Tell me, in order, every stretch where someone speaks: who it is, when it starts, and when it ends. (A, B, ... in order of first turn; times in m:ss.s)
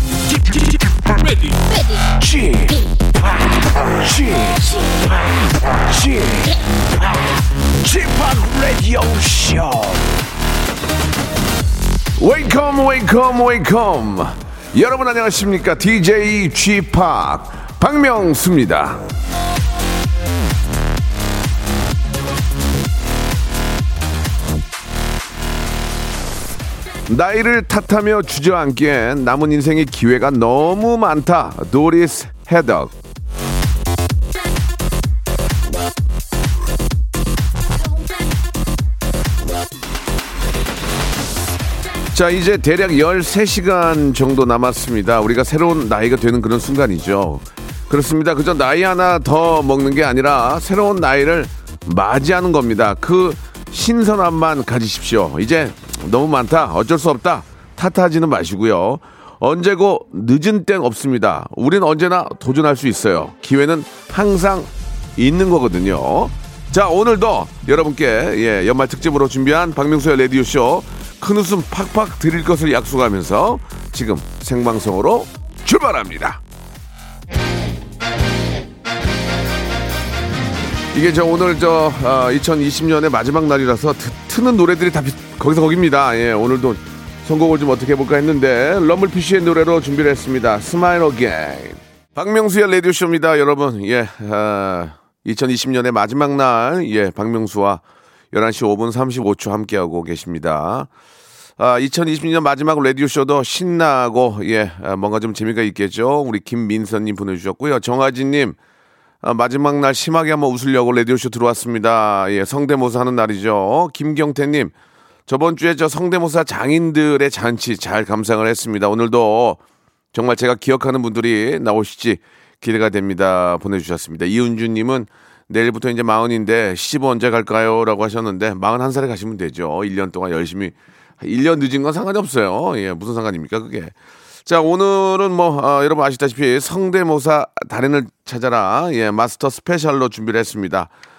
0:02.2-0:02.8 A
0:04.0-0:04.9 A
0:05.8-0:06.5 A
0:07.8-0:10.0 A
0:12.2-0:19.0 A
0:27.1-0:32.9 A
0:42.1-1:16.4 A
1:20.9-1:40.9 A
1:41.6-1:48.6 A
1:49.2-1:54.7 A
1:55.3-1:59.6 A
2:00.1-2:13.9 A
2:14.4-2:20.9 A